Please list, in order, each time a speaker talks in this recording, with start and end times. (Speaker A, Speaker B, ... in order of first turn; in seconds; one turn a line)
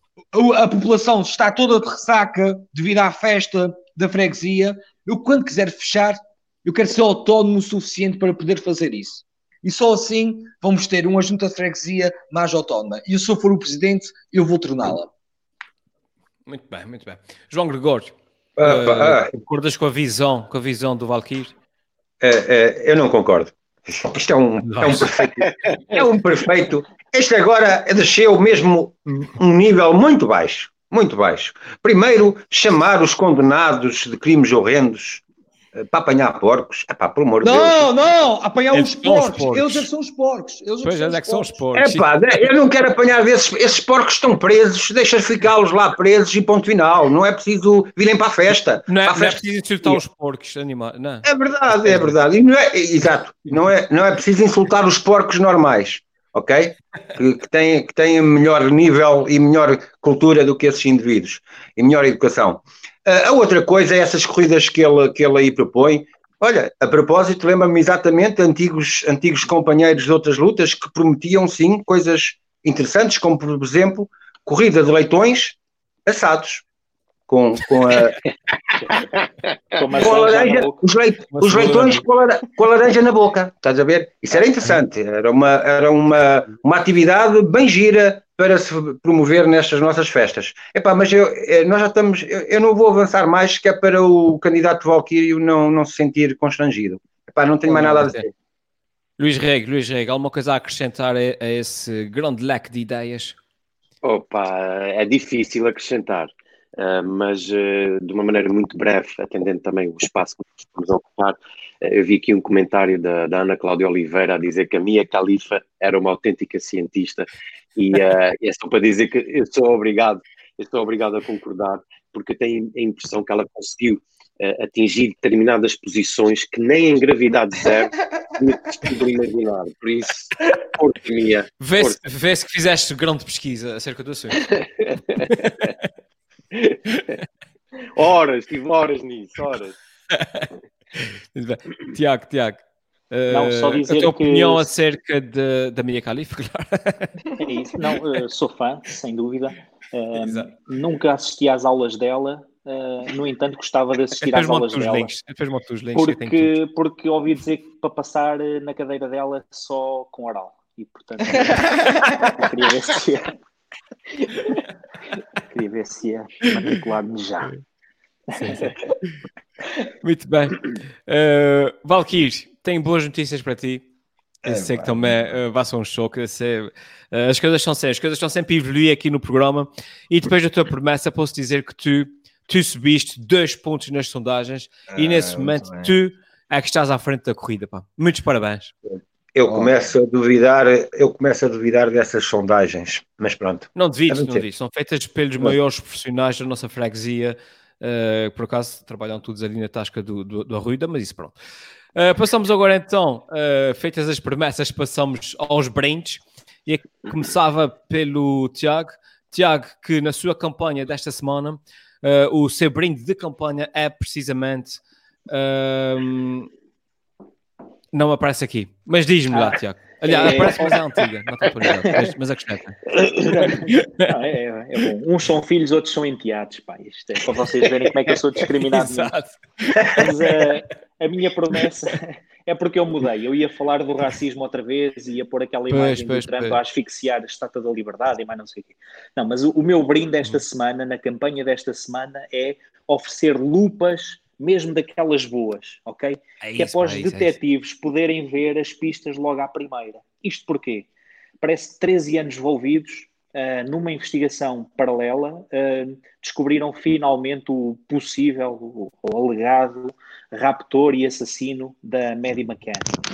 Speaker A: 0.3-15.1
Speaker B: 16.5-21.5
Speaker C: 18.6-19.3
Speaker C: 22.2-35.2
Speaker B: 24.6-25.1
Speaker C: 35.7-37.9
Speaker A: 37.4-41.5
Speaker B: 38.7-39.9
Speaker B: 40.8-42.1
Speaker C: 41.7-50.0
Speaker B: 48.9-51.2
Speaker C: 51.2-76.6
Speaker C: 77.3-78.2
Speaker D: 79.7-80.8
Speaker C: 80.0-98.2
Speaker B: 81.3-82.0
Speaker B: 97.7-98.2
Speaker B: 99.2-103.4
Speaker E: 104.0-132.0
Speaker B: 131.6-134.5
Speaker E: 134.5-135.2
Speaker B: 135.2-135.8
Speaker E: 137.9-139.7
Speaker B: 140.1-140.5
Speaker B: 141.0-147.1
Speaker D: 143.3-144.6
Speaker D: 147.4-155.1
Speaker B: 150.2-150.5
Speaker B: 154.2-156.5
Speaker D: 155.9-163.3
Speaker B: 161.8-162.1
Speaker D: 164.2-164.6
Speaker D: 165.5-167.5
Speaker B: 168.3-168.7
Speaker B: 170.0-173.8
Speaker A: 174.4-175.2
Speaker B: 174.4-188.7
Speaker A: 184.9-186.0
Speaker C: 188.9-194.4
Speaker A: 189.4-189.7
Speaker B: 193.7-201.3
Speaker B: 201.9-216.5
Speaker B: 217.9-222.8
Speaker D: 219.3-220.8
Speaker D: 223.2-229.1
Speaker B: 223.4-224.1
Speaker B: 228.5-230.3
Speaker D: 229.9-250.9
Speaker B: 235.7-236.6
Speaker B: 246.4-247.4
Speaker D: 251.4-262.9